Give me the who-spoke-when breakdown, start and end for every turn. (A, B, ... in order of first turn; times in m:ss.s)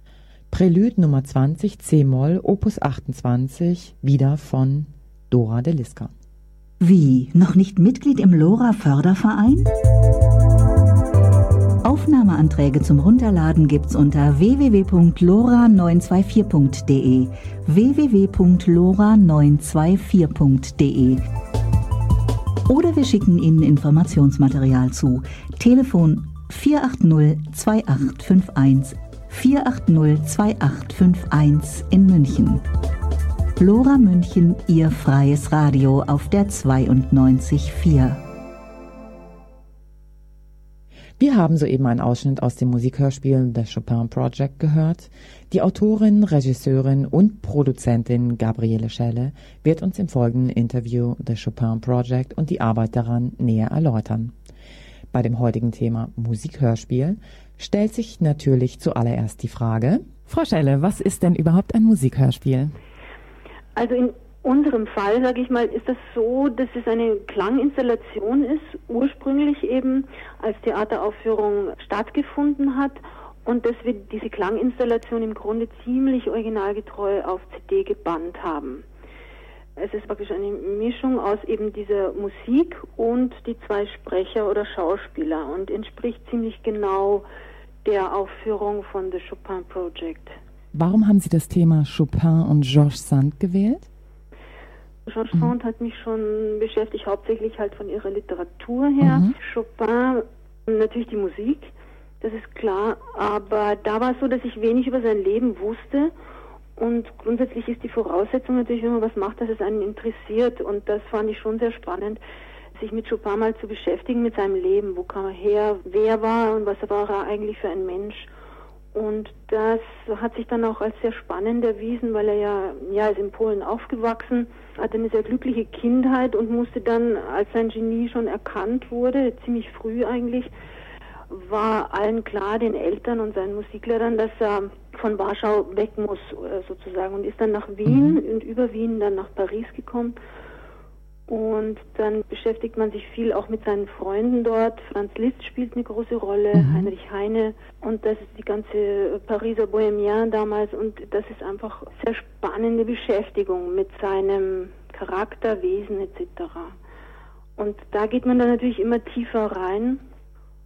0:00.5-0:06.1 A
0:06.8-0:09.7 B
0:11.8-0:21.2 B
0:22.7-0:32.6 B
0:33.6-0:38.2 B
0:41.2-0:54.4 A
0:55.1-1:02.8 A
1:03.8-1:18.8 C
1:19.8-1:27.2 C
1:27.8-1:30.4 C
1:30.7-1:33.9 A
1:35.1-1:46.1 C
1:39.0-1:39.4 A
1:46.8-1:52.2 C
1:52.8-1:58.3 C
1:58.9-2:10.5 C
2:11.3-2:20.2 C
2:17.8-2:18.2 A
2:21.3-2:36.8 C
2:26.5-2:26.9 A
2:37.6-2:40.0 C